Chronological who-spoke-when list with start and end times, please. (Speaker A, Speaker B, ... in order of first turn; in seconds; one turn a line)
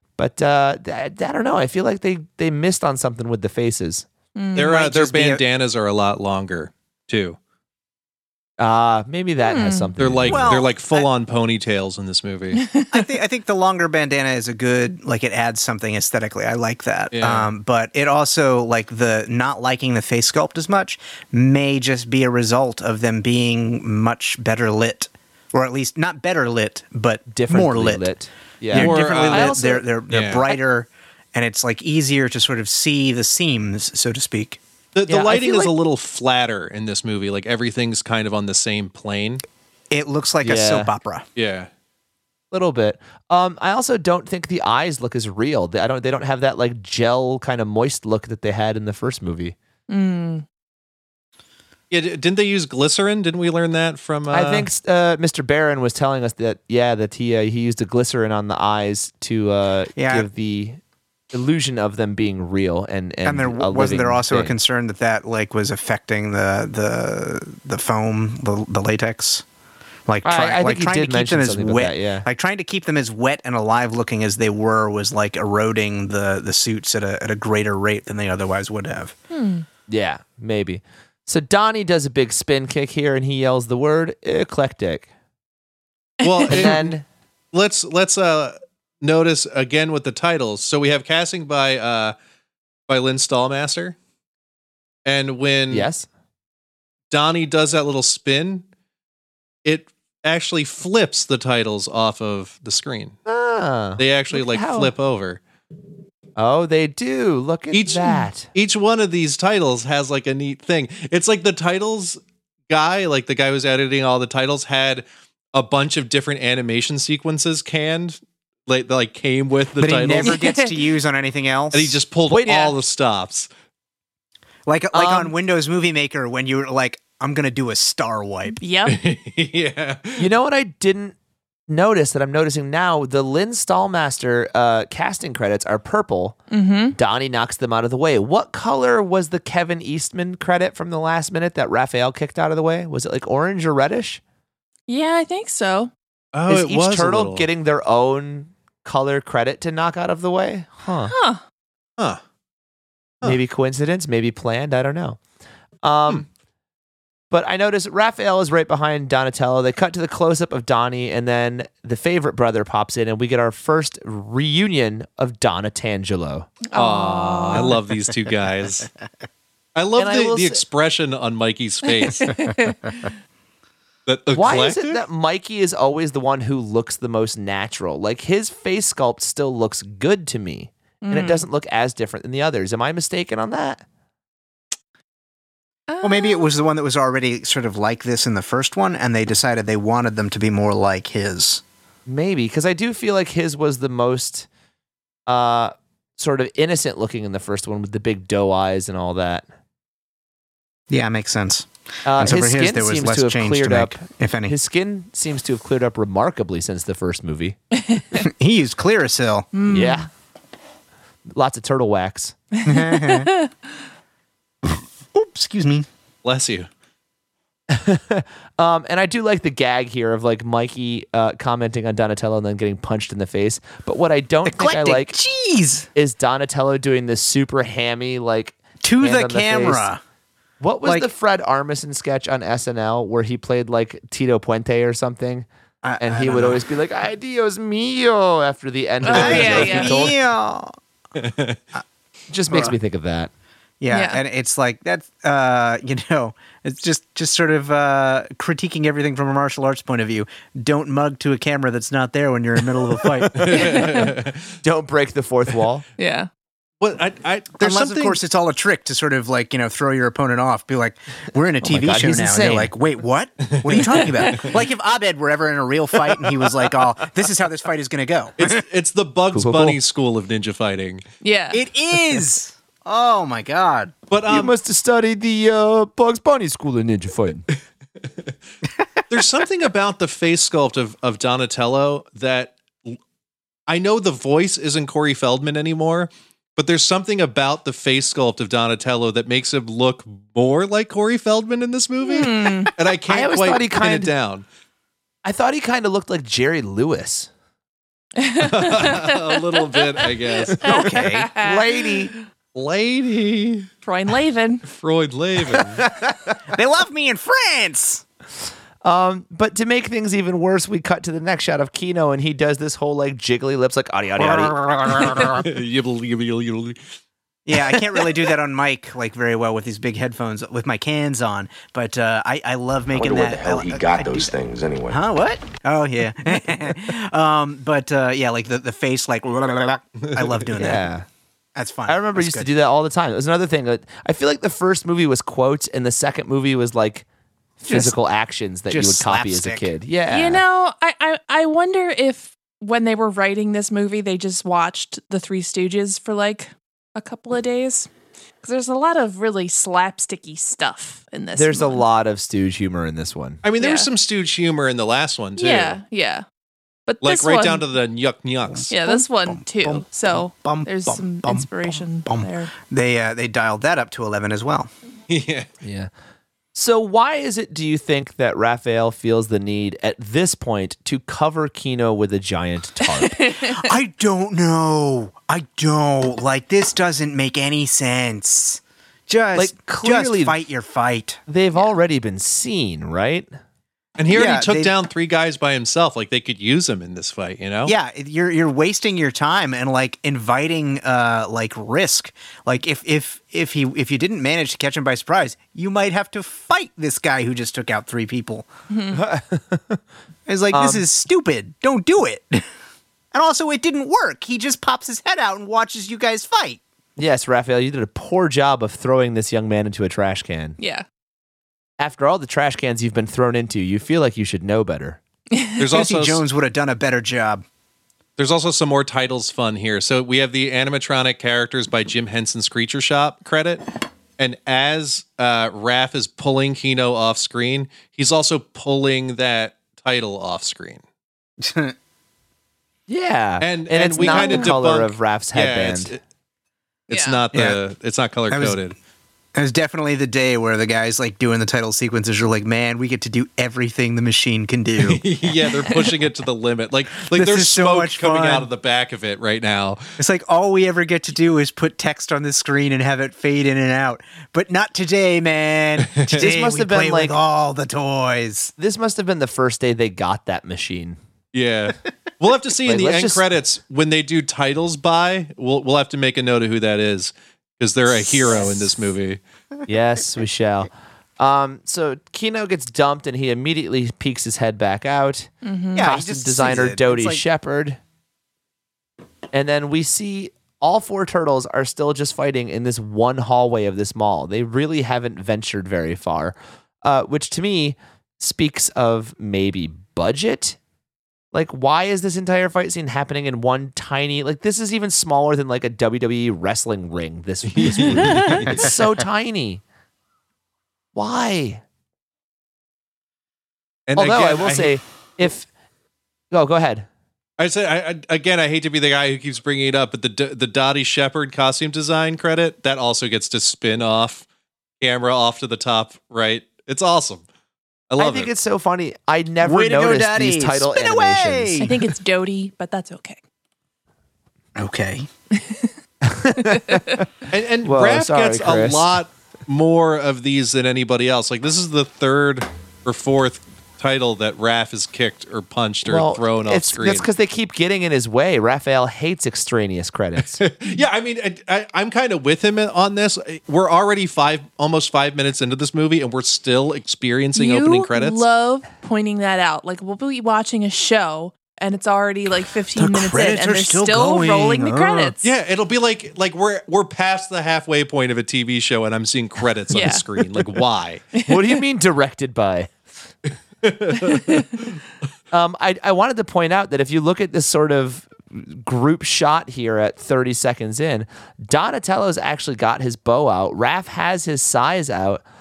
Speaker A: 0.2-4.1
Speaker B: 4.4-4.7
Speaker C: 4.6-7.4
Speaker D: 4.6-5.4
Speaker A: 8.6-10.6
Speaker B: 9.4-9.9
Speaker C: 10.0-12.6
Speaker D: 10.3-11.1
Speaker B: 12.6-13.0
Speaker D: 12.9-28.1
Speaker C: 17.1-17.5
Speaker A: 27.3-29.9
Speaker D: 28.7-34.6
Speaker C: 28.7-29.6
Speaker C: 30.1-30.4
Speaker C: 34.9-39.4
Speaker A: 35.1-35.7
Speaker D: 39.9-41.2
Speaker A: 40.4-40.9
Speaker C: 41.4-41.7
Speaker A: 42.5-49.6
Speaker B: 49.9-50.5
Speaker C: 51.9-54.7
Speaker A: 54.3-60.8
Speaker D: 60.0-60.3
Speaker A: 61.3-64.6
Speaker D: 63.3-69.4
Speaker D: 70.1-79.2
Speaker A: 70.2-72.3
Speaker B: 79.3-79.7
Speaker A: 79.9-85.1
Speaker B: 86.2-86.6
Speaker C: 86.2-87.0
Speaker A: 86.5-87.0
Speaker C: 87.5-92.2
Speaker C: 92.9-94.0
Speaker C: 95.0-95.9
Speaker A: 95.7-96.1
Speaker C: 97.1-98.7
Speaker C: 99.7-103.2
Speaker A: 103.3-104.9
Speaker C: 104.0-105.4
Speaker A: 106.4-108.5
Speaker C: 107.7-120.4
Speaker D: 119.8-122.0
Speaker B: 120.3-120.7
Speaker C: 121.7-123.5
Speaker A: 122.3-122.8
Speaker D: 124.7-128.6
Speaker A: 124.9-125.3
Speaker B: 128.6-129.0
Speaker C: 128.9-130.3
Speaker A: 130.2-131.2
Speaker A: 131.7-136.4
Speaker B: 136.5-137.0
Speaker A: 136.9-144.2
Speaker B: 144.9-145.9
Speaker C: 146.3-147.5
Speaker A: 146.5-151.1
Speaker B: 151.1-151.4
Speaker A: 153.2-155.2
Speaker A: 155.8-156.3
Speaker A: 157.3-166.5
Speaker B: 166.7-167.8
Speaker C: 166.7-168.9
Speaker C: 169.8-172.6
Speaker A: 170.0-170.6
Speaker B: 172.0-173.1
Speaker C: 174.1-175.0
Speaker A: 174.3-183.8
Speaker B: 181.0-181.4
Speaker B: 185.9-186.5
Speaker D: 186.0-191.6
Speaker A: 192.1-194.5
Speaker A: 195.3-199.5
Speaker D: 200.9-204.6
Speaker A: 202.1-207.6
Speaker B: 207.9-208.2
Speaker D: 208.1-209.5
Speaker B: 209.5-210.1
Speaker A: 209.7-210.1
Speaker A: 211.3-212.4
Speaker B: 212.5-213.5
Speaker D: 212.7-213.3
Speaker D: 214.7-215.9
Speaker C: 216.2-216.7
Speaker A: 217.7-225.2
Speaker D: 224.5-225.9
Speaker A: 225.9-229.9
Speaker D: 228.8-230.0
Speaker A: 230.6-235.5
Speaker D: 235.8-236.6
Speaker A: 236.0-240.2
Speaker B: 239.0-240.1
Speaker D: 239.0-240.7
Speaker C: 241.2-241.6
Speaker A: 242.3-243.3
Speaker D: 242.5-242.8
Speaker D: 243.8-253.6
Speaker B: 243.9-244.2
Speaker A: 253.2-253.9
Speaker C: 253.3-254.6
Speaker B: 253.5-254.1
Speaker A: 254.6-255.8
Speaker B: 256.0-256.3
Speaker C: 256.8-258.2
Speaker D: 257.6-268.6
Speaker A: 261.6-262.7
Speaker C: 263.6-264.4
Speaker B: 263.9-264.5
Speaker C: 268.4-271.0
Speaker A: 269.3-269.8
Speaker B: 271.2-271.6
Speaker D: 271.5-273.9
Speaker C: 274.1-274.5
Speaker A: 274.3-277.5
Speaker C: 279.1-283.0
Speaker C: 283.7-294.5
Speaker B: 292.0-292.7
Speaker A: 293.1-294.1
Speaker A: 295.2-297.3
Speaker B: 298.2-301.9
Speaker C: 298.4-300.8
Speaker D: 300.6-301.3
Speaker A: 300.6-302.1
Speaker C: 302.6-303.7
Speaker B: 303.9-304.6
Speaker C: 304.7-305.9
Speaker A: 305.8-306.2
Speaker D: 306.5-308.0
Speaker A: 308.8-314.6
Speaker D: 314.2-315.4
Speaker C: 314.8-316.8
Speaker D: 317.5-324.4
Speaker E: 322.9-325.0
Speaker D: 324.9-330.9
Speaker C: 330.0-330.5
Speaker A: 330.6-331.1
Speaker D: 331.6-332.5
Speaker A: 331.9-337.1
Speaker A: 337.6-340.4
Speaker D: 337.7-337.9
Speaker D: 338.7-339.7
Speaker B: 340.1-347.9
Speaker B: 348.4-351.8
Speaker A: 351.4-353.4
Speaker C: 353.4-355.8
Speaker B: 353.6-353.9
Speaker B: 355.4-356.2
Speaker B: 356.9-357.7
Speaker C: 357.0-358.7
Speaker D: 358.5-364.7
Speaker B: 358.7-362.5
Speaker C: 365.1-365.5
Speaker A: 365.6-365.9
Speaker A: 366.6-373.2
Speaker B: 372.8-373.7
Speaker D: 373.5-381.2
Speaker A: 379.4-380.4
Speaker A: 381.3-383.3
Speaker C: 384.0-387.8
Speaker D: 384.1-384.7
Speaker D: 387.6-398.5
Speaker B: 398.7-399.0
Speaker A: 398.9-399.8
Speaker D: 400.3-402.4
Speaker A: 400.5-400.8
Speaker D: 403.1-406.6
Speaker A: 407.0-410.6
Speaker B: 410.6-410.9
Speaker A: 411.8-415.0
Speaker B: 415.3-415.6
Speaker C: 415.6-416.2
Speaker D: 415.7-417.4
Speaker C: 418.2-423.6
Speaker C: 424.2-430.8
Speaker D: 431.4-431.8
Speaker A: 432.9-435.9
Speaker C: 433.4-436.0
Speaker B: 434.0-434.5
Speaker C: 436.9-438.8
Speaker B: 436.9-437.2
Speaker D: 437.3-437.6
Speaker D: 438.3-438.6
Speaker D: 439.4-445.0
Speaker C: 444.8-449.8
Speaker D: 447.0-448.5
Speaker D: 450.0-458.5
Speaker C: 455.9-456.2
Speaker A: 456.1-457.2
Speaker A: 458.6-461.0
Speaker C: 461.3-469.2
Speaker A: 462.6-463.2
Speaker A: 469.7-477.8
Speaker B: 475.4-475.9
Speaker D: 475.8-477.2
Speaker A: 479.3-490.6
Speaker A: 491.3-499.6
Speaker C: 497.5-498.7
Speaker D: 498.2-498.7
Speaker A: 500.9-501.6
Speaker C: 503.9-504.8
Speaker A: 504.0-505.5
Speaker A: 506.3-506.9
Speaker C: 507.4-514.3
Speaker C: 514.8-517.2
Speaker C: 517.9-518.3
Speaker A: 518.0-521.7
Speaker D: 519.4-521.7
Speaker B: 521.6-523.2
Speaker D: 524.6-525.1
Speaker B: 525.4-525.7
Speaker A: 526.0-527.1
Speaker B: 526.4-527.0
Speaker C: 527.3-537.1
Speaker A: 527.6-529.0
Speaker A: 535.9-540.4
Speaker C: 540.2-548.2
Speaker B: 547.4-555.3
Speaker D: 552.8-555.1
Speaker C: 555.2-561.1
Speaker B: 559.7-560.0
Speaker B: 561.1-561.6
Speaker A: 561.3-562.7
Speaker C: 563.6-564.6
Speaker B: 564.0-564.6
Speaker A: 565.3-575.2